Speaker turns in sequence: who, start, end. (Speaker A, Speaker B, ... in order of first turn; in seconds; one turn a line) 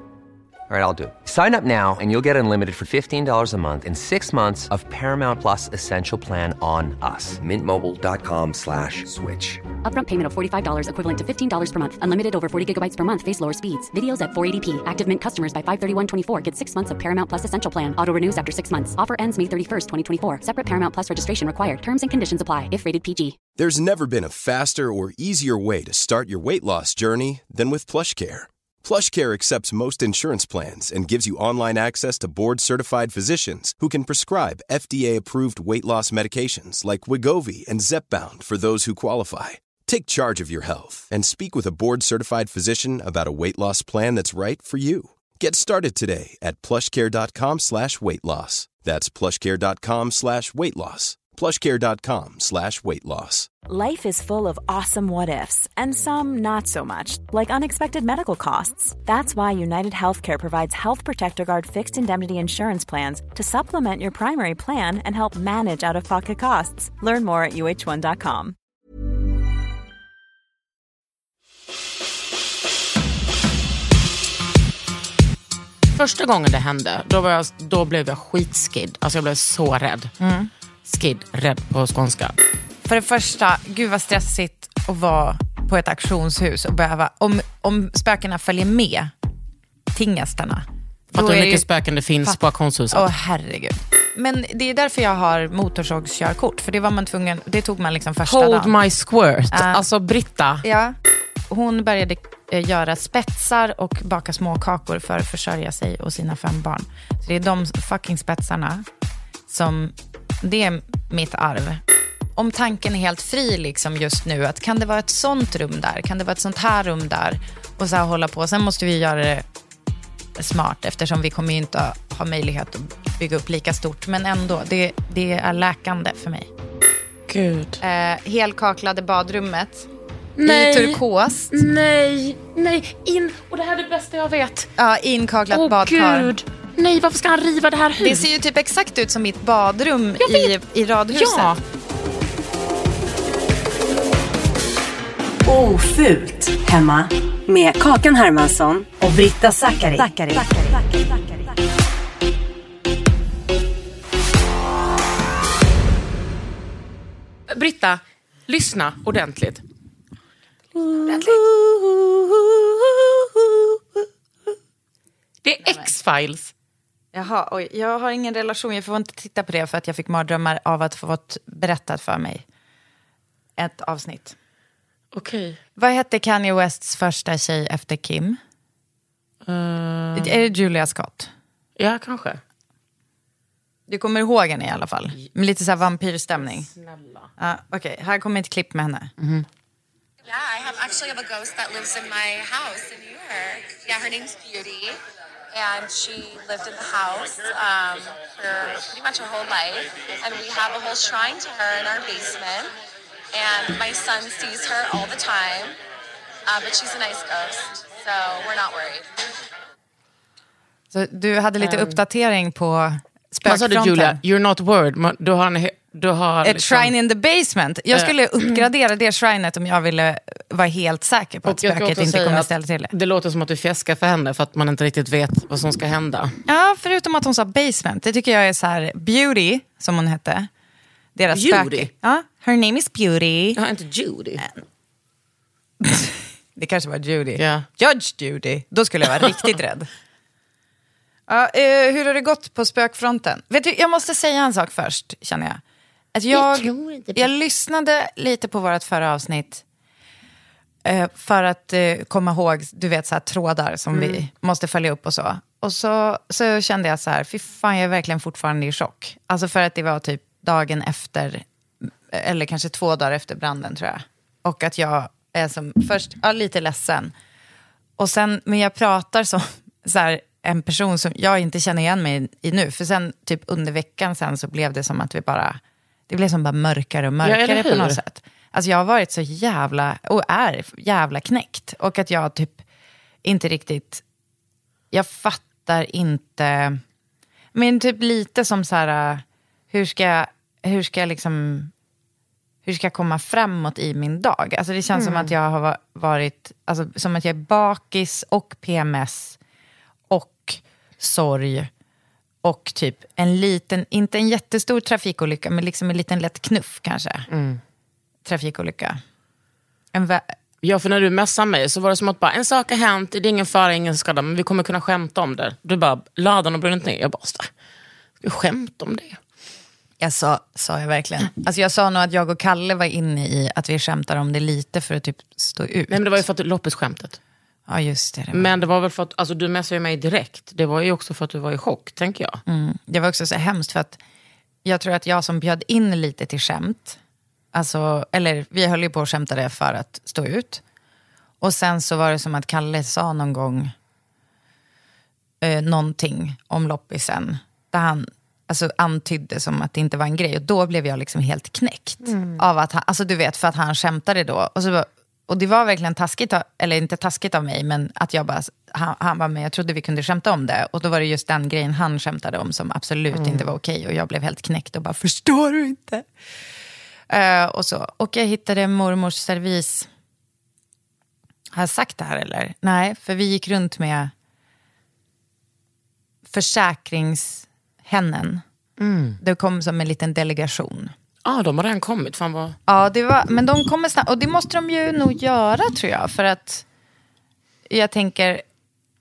Speaker A: 0.7-9.6
Speaker B: 9.8-23.4
Speaker C: 23.6-53.5
Speaker D: 53.7-68.5
Speaker E: 75.9-80.1
Speaker F: 80.2-80.5
Speaker E: 80.8-82.3
Speaker F: 82.8-89.1
Speaker F: 89.9-91.6
Speaker E: 91.1-93.1
Speaker F: 92.9-98.7
Speaker E: 98.2-100.6
Speaker F: 99.5-99.8
Speaker F: 100.6-101.0
Speaker F: 101.5-108.8
Speaker F: 109.5-111.8
Speaker F: 112.4-119.4
Speaker F: 120.4-126.5
Speaker E: 127.3-127.8
Speaker F: 127.8-129.9
Speaker E: 130.4-134.7
Speaker F: 130.4-131.6
Speaker F: 134.8-136.3
Speaker E: 135.5-138.3
Speaker F: 138.0-141.5
Speaker E: 140.2-140.6
Speaker E: 141.1-141.6
Speaker G: 145.4-150.4
Speaker D: 150.0-150.7
Speaker E: 157.5-159.6
Speaker E: 160.7-164.0
Speaker F: 161.1-161.4
Speaker E: 165.4-166.5
Speaker F: 167.1-172.4
Speaker F: 173.6-174.3
Speaker E: 175.1-175.6
Speaker F: 175.8-178.4
Speaker E: 179.4-180.4
Speaker F: 180.2-181.3
Speaker E: 181.8-182.4
Speaker F: 183.9-186.7
Speaker E: 186.3-187.3
Speaker F: 187.4-189.1
Speaker E: 189.2-189.5
Speaker H: 190.2-195.0
Speaker H: 195.5-202.7
Speaker H: 203.3-205.8
Speaker H: 206.4-209.2
Speaker F: 210.9-214.2
Speaker E: 211.6-212.0
Speaker E: 213.4-216.9
Speaker F: 216.4-222.9
Speaker E: 217.9-218.6
Speaker E: 221.4-226.4
Speaker F: 226.5-230.5
Speaker F: 231.2-233.6
Speaker E: 231.3-231.9
Speaker E: 233.6-234.4
Speaker F: 235.8-239.9
Speaker E: 237.3-237.7
Speaker F: 241.3-245.6
Speaker F: 246.1-249.6
Speaker E: 246.3-247.3
Speaker F: 250.8-267.1
Speaker E: 253.9-254.3
Speaker F: 268.0-282.6
Speaker E: 277.2-278.0
Speaker F: 283.2-284.0
Speaker F: 284.9-286.8
Speaker F: 287.5-291.7
Speaker F: 292.6-299.4
Speaker E: 294.9-295.3
Speaker F: 300.1-301.7
Speaker F: 302.4-307.3
Speaker E: 307.3-307.6
Speaker F: 308.2-309.0
Speaker F: 309.9-310.2
Speaker E: 310.6-317.5
Speaker E: 318.2-319.2
Speaker F: 320.0-326.1
Speaker E: 325.9-327.2
Speaker F: 327.7-328.5
Speaker E: 328.3-332.4
Speaker F: 332.5-334.0
Speaker F: 334.6-337.0
Speaker F: 337.5-340.6
Speaker F: 341.4-343.7
Speaker F: 345.4-366.1
Speaker E: 352.0-352.4
Speaker E: 363.1-363.5
Speaker F: 367.1-369.9
Speaker F: 371.5-374.1
Speaker F: 376.3-378.4
Speaker E: 378.8-379.2
Speaker F: 379.2-380.9
Speaker E: 381.2-382.6
Speaker F: 382.7-386.6
Speaker F: 387.7-388.4